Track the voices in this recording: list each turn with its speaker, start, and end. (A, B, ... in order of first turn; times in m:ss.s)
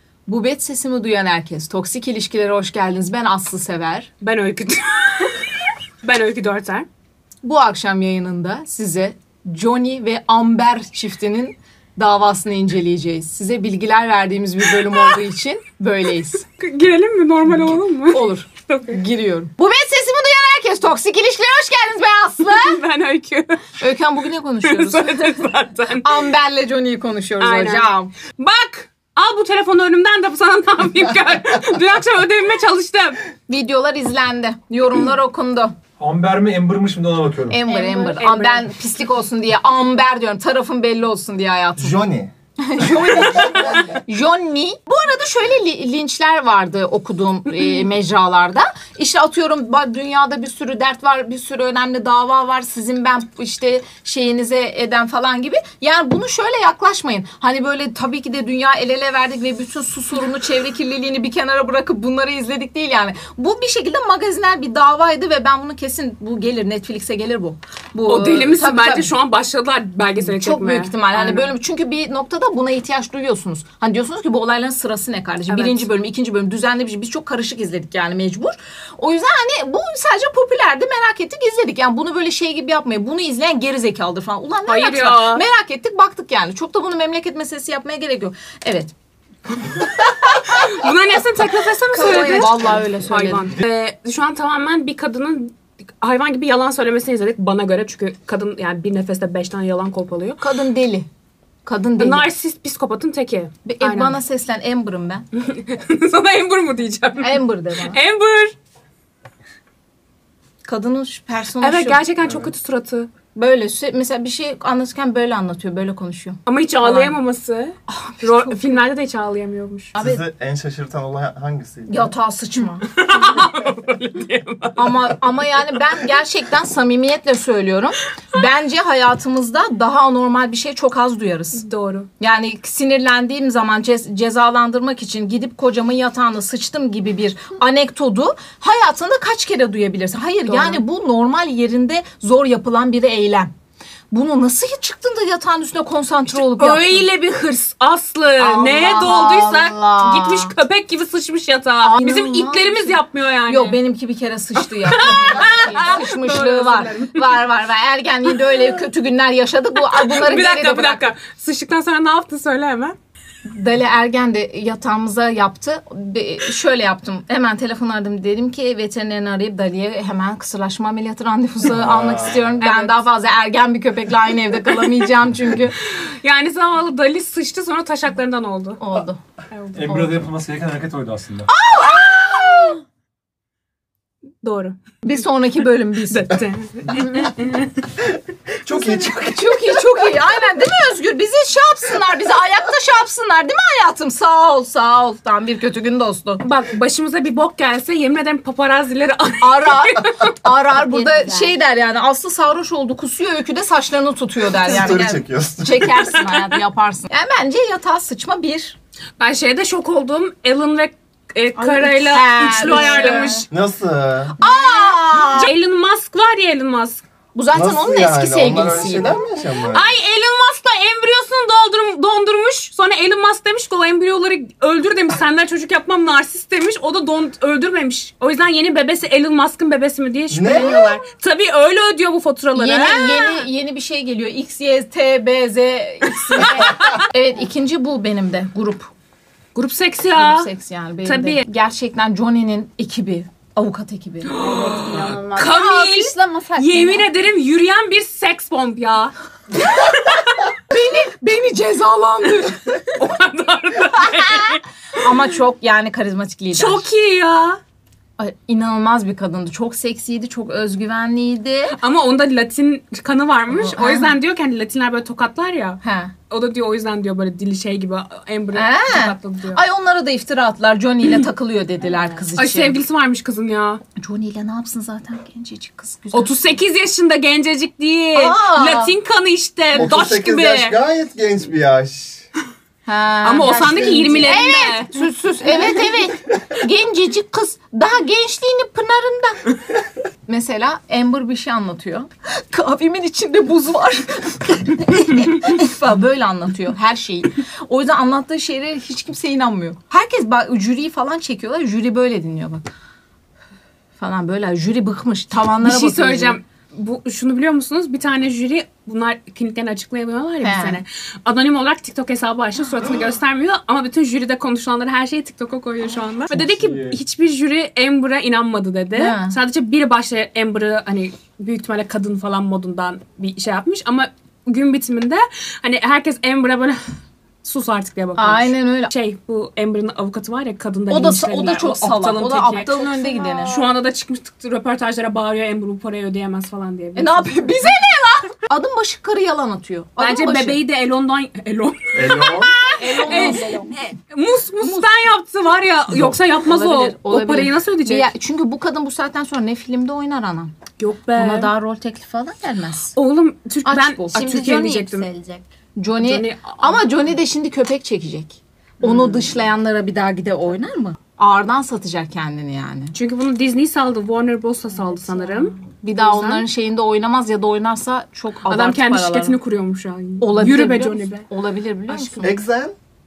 0:00.3-0:04.1 A
0:04.2-0:05.4 B
0:06.0-0:06.9 B
0:07.4-0:16.4 A
0:16.6-0:19.0 B
0:17.4-0:22.8 A
0:22.4-0:23.7 B
0:23.8-0:28.1 A
0:24.6-0:26.2 B
0:27.4-0:33.2 B
0:33.5-0:35.7 A
0:36.0-0:37.6 C
0:37.5-0:42.1 A
0:37.7-0:38.6 B
0:41.8-0:42.3 D
0:42.6-1:09.1 A
1:08.1-1:11.5 B
1:10.2-1:28.9 A
1:15.5-1:15.9 B
1:24.7-1:25.4 B
1:29.6-1:30.4 A
1:30.2-1:40.4 B
1:31.9-1:33.5 A
1:40.4-1:41.1 A
1:41.6-1:42.3 A
1:42.0-1:44.2 B
1:43.6-1:45.2 A
1:45.4-1:48.5 B
1:47.2-1:48.0 A
1:50.6-1:52.0 A
1:51.6-1:53.1 B
1:52.2-1:52.5 D
1:53.3-1:57.2 A
1:56.5-1:59.9 B
1:57.9-1:58.8 A
2:00.0-2:02.1 D
2:00.0-2:00.2 A
2:01.9-2:02.9 A
2:02.9-2:04.9 B
2:04.8-2:11.6 A
2:11.5-2:12.1 B
2:12.2-2:23.5 A
2:20.5-2:20.8 B
2:24.1-2:27.1 A
2:26.3-2:33.8 B
2:28.4-2:30.5 A
2:31.8-2:41.1 A
2:34.6-2:37.4 B
2:39.8-2:43.0 B
2:43.4-2:55.7 A
2:51.7-2:52.5 D
2:52.6-2:53.0 B
2:55.9-2:58.8 B
2:58.8-2:59.2 A
2:59.5-2:59.8 B
2:59.7-3:01.5 C
2:59.9-3:00.2 A
3:01.5-3:02.8 B
3:01.8-3:02.5 A
3:04.4-3:04.8 B
3:05.0-3:06.4 A
3:06.1-3:07.7 B
3:08.6-3:16.4 A
3:08.6-3:09.2 D
3:16.4-3:20.3 B
3:19.4-3:28.8 A
3:20.8-3:21.5 E
3:24.5-3:26.0 D
3:26.2-3:26.5 B
3:29.2-3:33.5 B
3:31.6-3:33.5 A
3:33.5-3:34.3 D
3:34.4-3:35.5 A
3:34.4-3:37.0 B
3:37.3-3:39.2 A
3:37.5-3:39.9 D
3:39.7-3:53.4 B
3:50.3-3:51.0 D
3:50.5-3:50.9 A
3:52.5-3:58.9 A
3:56.1-3:57.0 B
3:59.5-4:00.5 B
4:00.1-4:04.4 A
4:01.0-4:01.4 B
4:04.3-4:09.1 B
4:04.4-4:07.1 E
4:09.8-4:10.4 B
4:10.7-4:12.8 A
4:12.9-4:14.6 B
4:15.0-4:16.8 A
4:16.5-4:17.6 B
4:18.2-4:21.8 A
4:21.7-4:29.6 B
4:23.5-4:24.2 A
4:25.8-4:26.1 A
4:28.5-4:32.8 A
4:32.3-4:33.8 B
4:34.0-4:36.3 A
4:36.1-4:40.8 B
4:38.1-4:38.9 A
4:39.7-4:42.3 D
4:42.8-4:49.4 A
4:43.2-4:44.9 B
4:50.2-5:02.7 A
5:04.0-5:06.4 A
5:05.6-5:26.8 B
5:10.4-5:10.8 A
5:16.3-5:17.0 C
5:18.9-5:19.4 A
5:27.4-5:37.4 B
5:28.2-5:28.9 A
5:30.9-5:33.5 A
5:33.3-5:33.7 E
5:37.0-5:40.6 A
5:40.0-5:48.1 B
5:41.9-5:42.6 D
5:42.6-5:43.7 A
5:42.8-5:43.7 E
5:44.6-5:44.9 A
5:46.3-5:50.5 A
5:50.8-5:51.5 B
5:51.1-5:52.9 A
5:52.9-5:55.1 B
5:53.6-5:54.5 A
5:54.1-5:55.5 E
5:55.8-6:02.9 A
5:56.0-5:56.8 B
6:02.9-6:06.4 B
6:04.9-6:09.4 A
6:08.5-6:11.3 B
6:10.2-6:12.4 A
6:11.9-6:12.2 B
6:12.2-6:12.8 D